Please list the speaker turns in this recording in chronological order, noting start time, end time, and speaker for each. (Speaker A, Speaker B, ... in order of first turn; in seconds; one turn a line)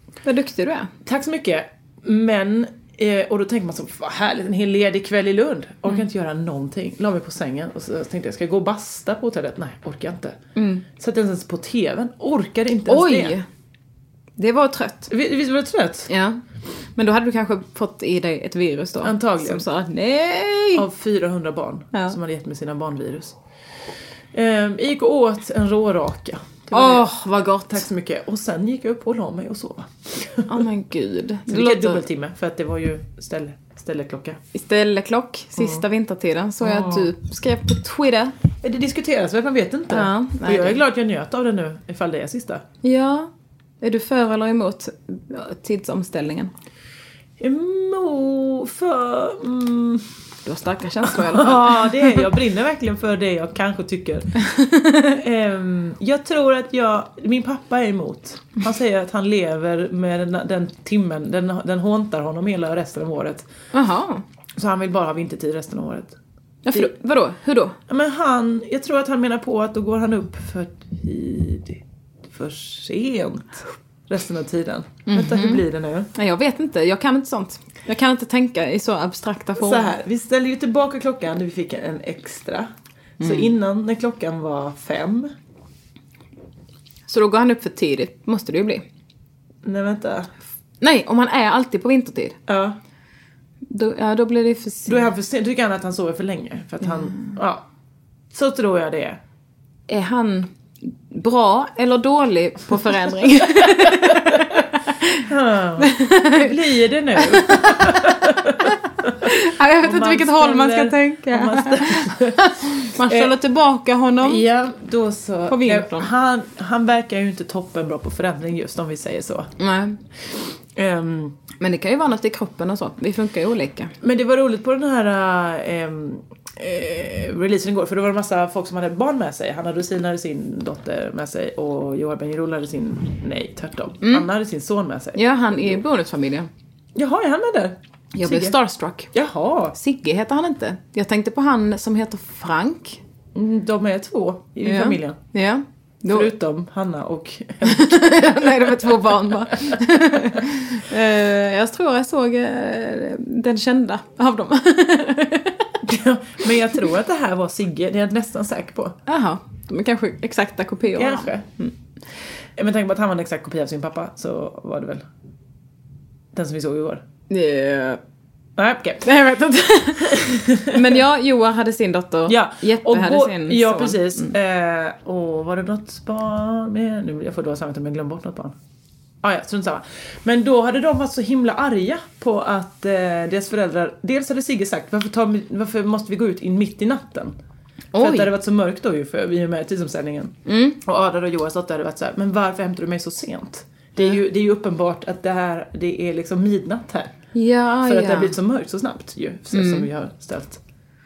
Speaker A: 0.2-0.9
Speaker B: 1.1-10.4
Speaker A: 10.6-10.9
Speaker B: 11.0-13.4
Speaker A: 12.9-13.4
Speaker A: 14.4-15.1
Speaker B: 15.1-16.1
Speaker A: 16.1-16.4
Speaker A: 17.0-20.9
Speaker B: 19.0-19.6
Speaker B: 20.8-23.4
Speaker B: 24.3-27.1
Speaker A: 26.7-27.9
Speaker B: 27.7-30.6
Speaker A: 30.5-32.0
Speaker B: 31.5-34.4
Speaker A: 34.5-38.3
Speaker B: 35.6-35.8
Speaker B: 36.6-37.1
Speaker B: 38.6-42.6
Speaker A: 39.9-40.8
Speaker A: 42.8-43.3
Speaker A: 43.8-46.5
Speaker B: 47.4-50.1
Speaker A: 50.5-52.3
Speaker B: 51.1-54.3
Speaker A: 54.6-55.1
Speaker B: 54.9-63.5
Speaker A: 63.7-64.2
Speaker B: 64.6-66.2
Speaker A: 66.7-67.8
Speaker B: 67.9-76.1
Speaker A: 75.1-75.6
Speaker A: 76.2-79.9
Speaker B: 79.6-85.3
Speaker A: 83.2-83.5
Speaker A: 87.1-88.8
Speaker B: 89.6-90.3
Speaker A: 90.8-92.4
Speaker B: 92.5-92.8
Speaker A: 93.7-95.1
Speaker B: 94.9-97.7
Speaker B: 98.3-99.2
Speaker A: 99.9-100.5
Speaker A: 101.1-105.2
Speaker B: 103.7-104.5
Speaker B: 105.2-113.3
Speaker A: 105.8-106.5
Speaker A: 107.2-108.0
Speaker A: 109.2-114.5
Speaker B: 114.2-119.5
Speaker A: 115.5-116.1
Speaker A: 119.6-120.0
Speaker B: 120.8-121.4
Speaker A: 121.6-123.9
Speaker B: 124.0-135.8
Speaker A: 134.0-134.3
Speaker A: 135.2-136.5
Speaker B: 136.9-138.6
Speaker A: 138.2-139.1
Speaker B: 139.1-139.8
Speaker A: 139.8-143.0
Speaker B: 143.3-145.2
Speaker A: 144.6-146.3
Speaker B: 146.1-149.1
Speaker A: 147.7-155.7
Speaker B: 155.8-159.0
Speaker A: 159.1-161.7
Speaker B: 160.9-161.5
Speaker B: 162.6-165.1
Speaker B: 166.3-167.0
Speaker A: 167.3-168.0
Speaker B: 168.6-169.1
Speaker A: 169.0-174.3
Speaker B: 170.1-170.9
Speaker B: 172.3-178.6
Speaker B: 179.2-187.4
Speaker A: 187.9-188.3
Speaker B: 188.0-197.1
Speaker A: 190.5-190.8
Speaker A: 197.3-198.4
Speaker B: 197.8-200.6
Speaker A: 199.5-199.9